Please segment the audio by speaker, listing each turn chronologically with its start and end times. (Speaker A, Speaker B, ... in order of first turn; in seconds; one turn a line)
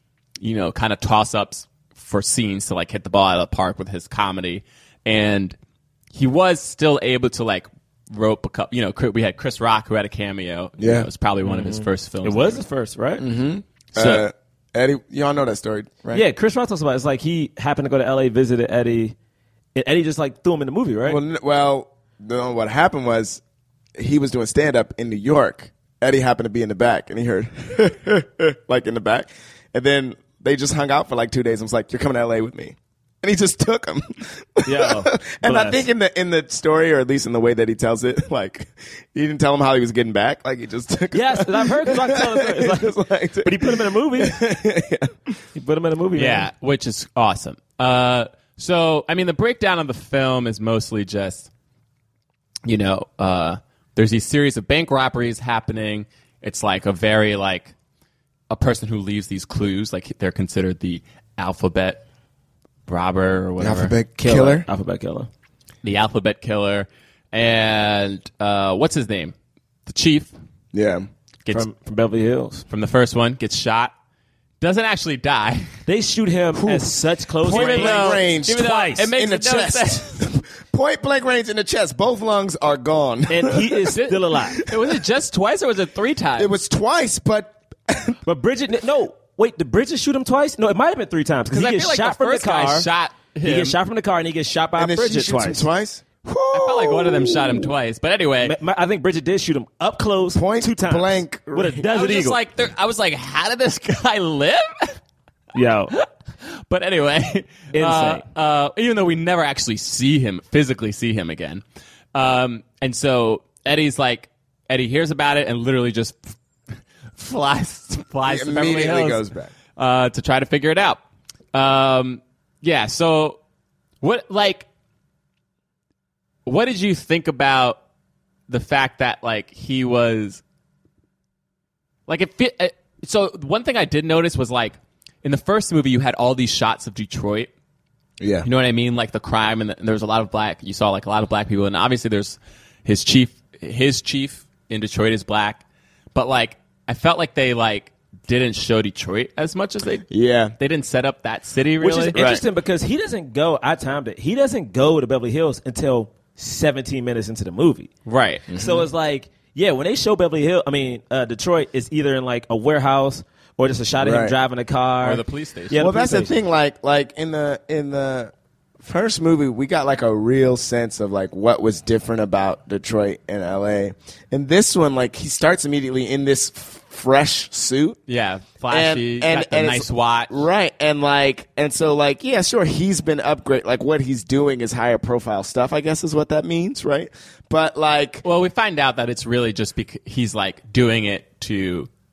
Speaker A: 0.4-5.6
Speaker A: 6.1-12.6
Speaker B: 10.8-11.1
Speaker C: 11.4-13.2
Speaker B: 13.2-16.2
Speaker A: 14.0-14.2
Speaker C: 16.1-19.1
Speaker C: 19.8-21.2
Speaker B: 21.1-23.4
Speaker B: 24.0-45.4
Speaker C: 34.6-35.9
Speaker C: 41.1-44.4
Speaker C: 45.5-46.5
Speaker A: 46.2-51.5
Speaker A: 52.6-57.7
Speaker A: 58.5-62.0
Speaker A: 62.9-63.9
Speaker B: 63.6-64.7
Speaker C: 64.2-65.3
Speaker A: 65.8-69.3
Speaker A: 69.9-70.3
Speaker B: 70.7-71.1
Speaker C: 71.5-72.7
Speaker A: 72.7-73.9
Speaker A: 74.6-75.7
Speaker C: 75.9-79.1
Speaker B: 76.5-83.9
Speaker A: 77.4-80.2
Speaker C: 83.3-84.6
Speaker A: 83.9-86.5
Speaker B: 86.4-88.2
Speaker C: 88.3-92.9
Speaker A: 91.5-93.8
Speaker C: 93.4-95.7
Speaker B: 94.8-97.7
Speaker A: 96.5-98.5
Speaker C: 98.4-102.4
Speaker B: 100.3-101.8
Speaker A: 101.8-105.0
Speaker C: 105.5-105.9
Speaker A: 105.9-116.3
Speaker C: 107.7-108.2
Speaker A: 117.2-119.2
Speaker B: 118.3-119.5
Speaker A: 119.8-121.0
Speaker A: 121.5-123.4
Speaker A: 124.0-124.7
Speaker A: 126.5-127.8
Speaker A: 128.5-130.4
Speaker A: 132.1-137.5
Speaker B: 138.2-138.5
Speaker A: 138.4-150.1
Speaker B: 150.1-150.6
Speaker A: 150.6-152.2
Speaker C: 151.8-157.9
Speaker B: 152.1-152.4
Speaker A: 158.1-158.5
Speaker B: 158.5-158.8
Speaker C: 158.5-166.3
Speaker B: 164.0-164.3
Speaker A: 165.0-165.8
Speaker B: 165.8-178.0
Speaker A: 178.1-180.4
Speaker B: 178.7-188.2
Speaker A: 188.2-191.9